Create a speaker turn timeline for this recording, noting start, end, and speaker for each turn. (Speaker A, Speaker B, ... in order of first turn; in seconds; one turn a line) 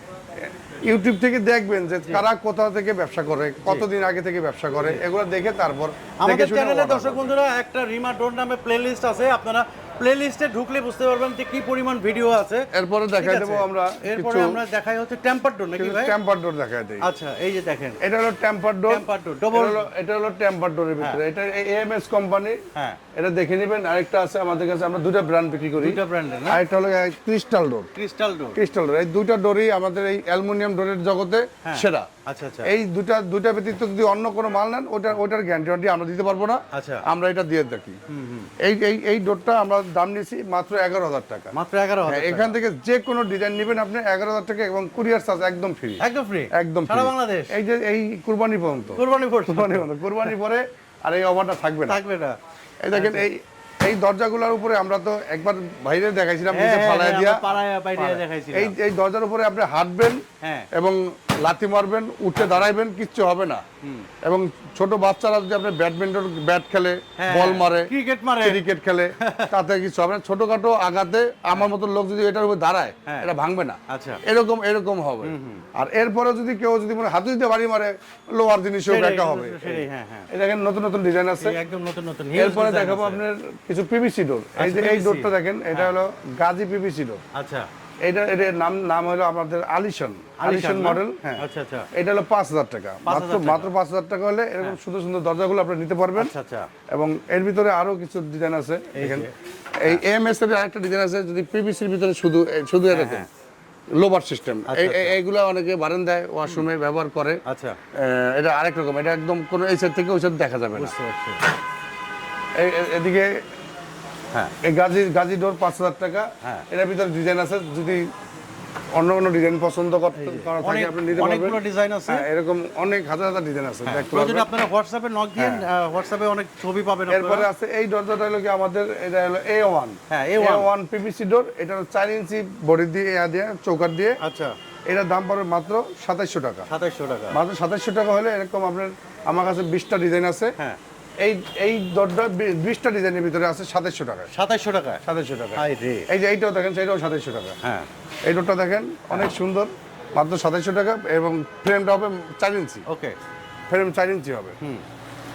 Speaker A: 0.4-7.3
Speaker B: 4.8-5.0
Speaker B: 6.2-16.2
Speaker A: 12.7-14.6
Speaker A: 15.8-17.1
Speaker B: 17.0-18.0
Speaker A: 18.0-22.6
Speaker B: 18.9-19.8
Speaker B: 22.7-23.0
Speaker A: 23.1-26.0
Speaker B: 25.8-26.6
Speaker A: 26.5-27.9
Speaker B: 27.9-28.6
Speaker A: 28.6-32.1
Speaker B: 31.6-32.7
Speaker A: 32.6-38.0
Speaker B: 36.7-37.0
Speaker B: 38.1-38.5
Speaker A: 38.6-41.5
Speaker B: 41.5-42.6
Speaker A: 42.1-52.0
Speaker B: 46.0-47.5
Speaker B: 48.9-50.3
Speaker B: 51.9-52.4
Speaker A: 52.8-63.6
Speaker B: 52.9-53.3
Speaker B: 56.5-58.8
Speaker B: 60.4-60.7
Speaker B: 62.3-62.7
Speaker B: 63.8-64.1
Speaker A: 64.2-81.5
Speaker B: 67.2-68.6
Speaker B: 69.2-69.5
Speaker B: 73.9-74.2
Speaker B: 75.2-75.7
Speaker B: 78.9-80.3
Speaker B: 81.4-83.2
Speaker A: 82.3-87.2
Speaker B: 84.6-86.0
Speaker B: 87.3-87.7
Speaker A: 88.0-91.4
Speaker B: 90.4-91.9
Speaker A: 91.9-96.3
Speaker B: 93.0-93.7
Speaker B: 96.2-96.7
Speaker A: 96.9-99.3
Speaker B: 98.9-99.3
Speaker A: 99.8-103.3
Speaker B: 102.9-103.3
Speaker A: 104.0-107.4
Speaker B: 104.7-105.2
Speaker B: 107.5-107.8
Speaker A: 107.9-110.9
Speaker B: 110.7-111.4
Speaker A: 112.6-113.3
Speaker A: 114.6-118.1
Speaker A: 119.0-124.5
Speaker B: 120.1-122.2
Speaker B: 123.8-127.5
Speaker A: 125.4-125.6
Speaker A: 127.1-134.2
Speaker B: 130.1-130.7
Speaker B: 134.2-134.6
Speaker A: 134.9-136.7
Speaker B: 136.7-137.4
Speaker A: 137.3-140.5
Speaker A: 141.2-144.3
Speaker B: 144.3-145.0
Speaker A: 145.0-147.6
Speaker B: 145.5-146.1
Speaker B: 147.6-147.9
Speaker A: 148.3-152.8
Speaker B: 152.8-153.2
Speaker A: 153.7-154.6